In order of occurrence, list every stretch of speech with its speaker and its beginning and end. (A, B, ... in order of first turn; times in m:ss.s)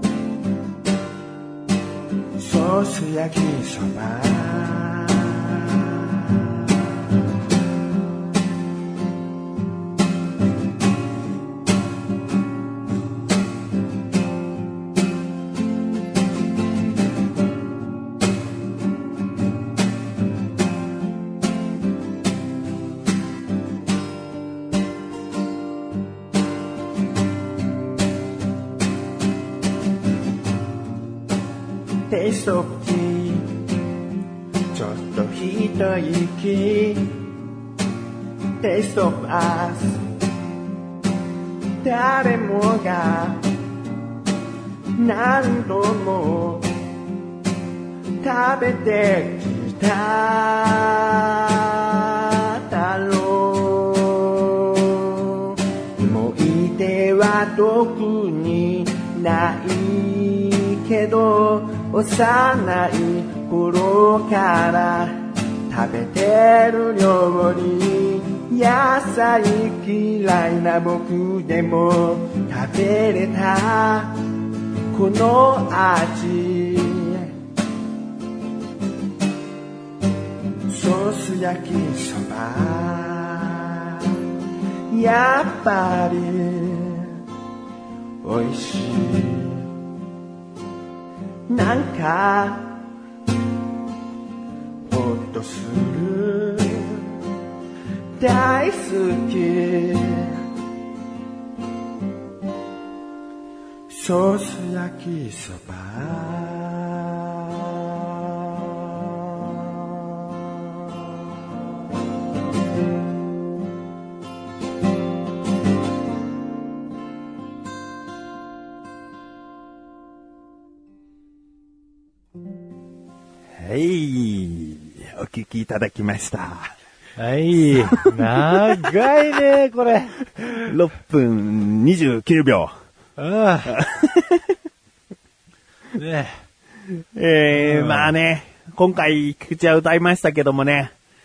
0:02.4-0:06.8 A
0:32.1-0:33.5 A
0:34.7-0:37.1 A
0:38.6-0:40.0 A
0:41.8-0:43.4 A
0:45.0-0:46.7 A
0:48.2-1:14.2 A
1:14.9-1:17.3 A
1:20.7-1:24.1 A
1:24.9-1:27.2 A
1:28.2-1:29.7 A
1:31.5-1:32.8 A
1:34.9-1:37.1 A
1:38.2-1:40.4 A
1:43.9-1:50.9 A
2:03.6-2:06.7 B
2:07.2-2:10.7 C
2:07.6-2:08.8 B
2:10.6-2:12.7 B
2:13.2-2:13.8 C
2:13.7-2:14.4 B
2:16.0-2:16.4 C
2:17.2-2:20.9 B
2:17.5-2:18.1 C